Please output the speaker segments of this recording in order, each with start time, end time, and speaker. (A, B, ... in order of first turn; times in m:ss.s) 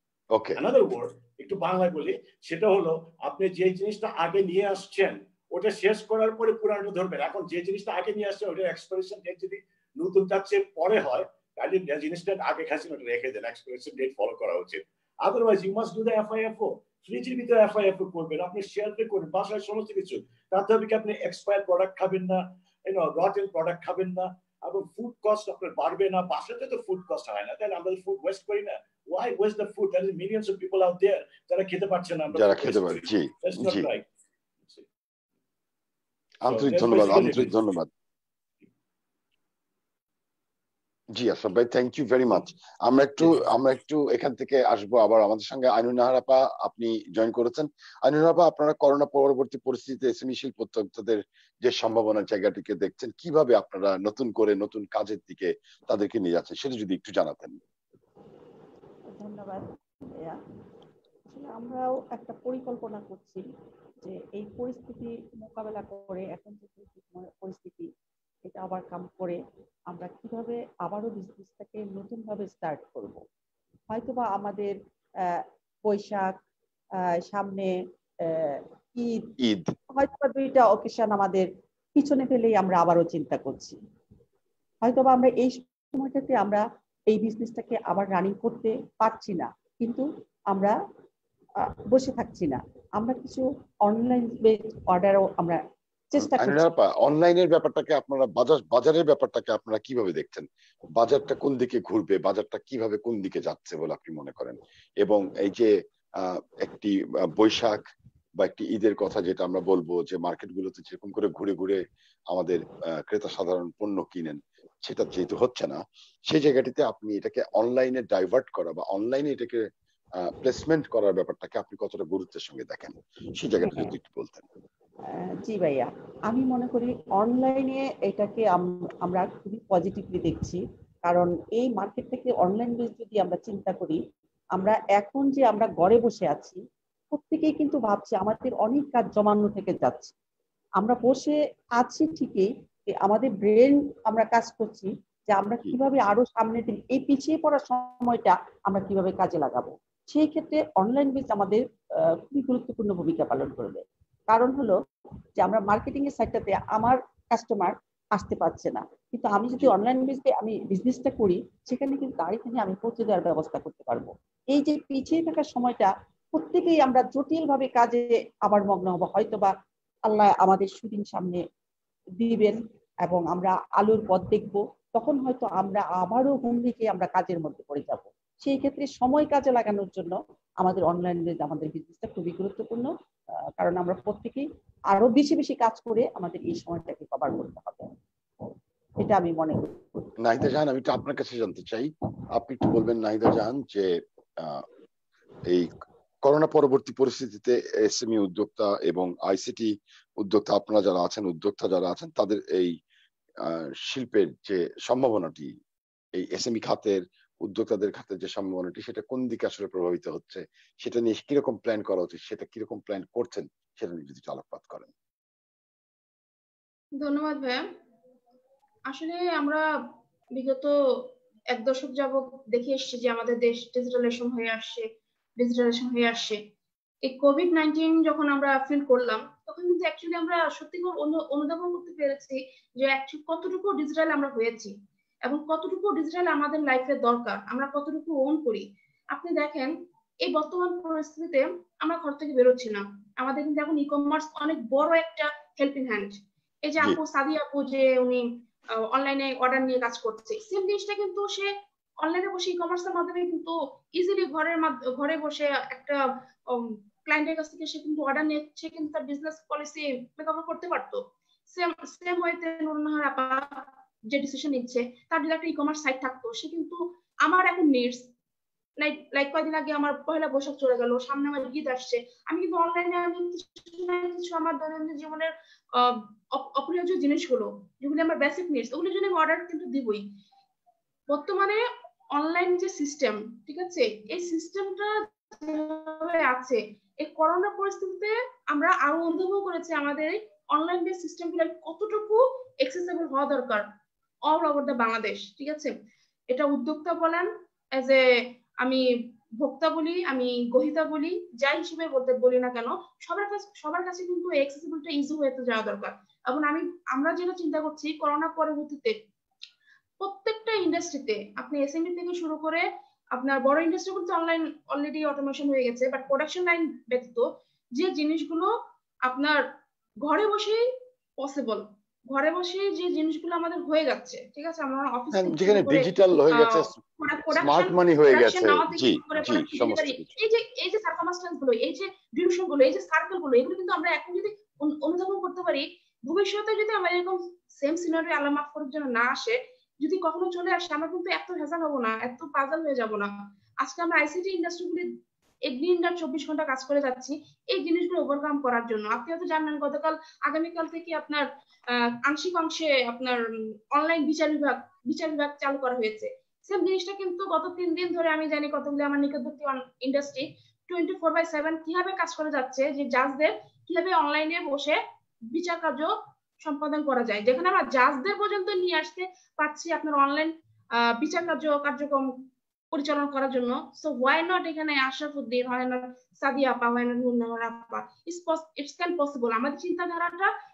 0:00.3-0:00.6 A
0:00.6-0:34.0 B
0:32.3-0:33.9 A
0:36.4-0:37.9 A
0:36.5-0:37.5 B
0:41.1-0:57.6 A
0:59.2-0:59.7 C
1:01.3-1:03.4 C
1:04.0-1:07.9 C
1:08.4-1:13.2 C
1:13.9-1:16.3 C
1:17.2-1:17.7 C
1:18.2-1:19.3 C
1:19.4-1:19.7 A
1:19.9-1:23.8 C
1:24.8-1:30.8 C
1:31.6-1:36.6 C
1:36.2-1:40.4 A
1:41.0-1:47.8 A
1:48.4-1:59.6 A
2:00.2-2:04.5 A
2:05.4-2:14.0 C
2:14.6-2:16.6 C
2:17.1-2:20.1 C
2:20.8-2:34.8 C
2:35.4-2:49.5 C
2:50.0-2:51.4 C
2:52.2-3:02.9 C
3:03.6-3:07.9 C
3:09.0-3:10.0 C
3:10.2-3:14.6 A
3:16.2-3:22.8 A
3:23.4-3:25.5 A
3:26.2-3:34.9 A
3:37.0-3:37.6 D
3:38.9-3:39.6 D
3:40.3-3:40.7 D
3:41.5-3:44.9 D
3:45.4-3:46.4 D
3:47.0-3:54.7 D
3:55.2-4:08.2 D
4:08.8-4:28.1 D
4:28.8-4:40.0 D
4:41.1-4:41.6 D
4:42.1-4:53.7 D
4:54.3-4:55.7 D
4:56.3-4:58.0 D
4:59.4-5:09.0 D
5:10.0-5:18.5 D
5:19.0-5:19.4 D
5:20.0-5:20.6 D
5:21.2-5:44.9 D
5:25.1-5:30.1 A
5:45.5-6:04.8 D
6:05.3-6:20.3 D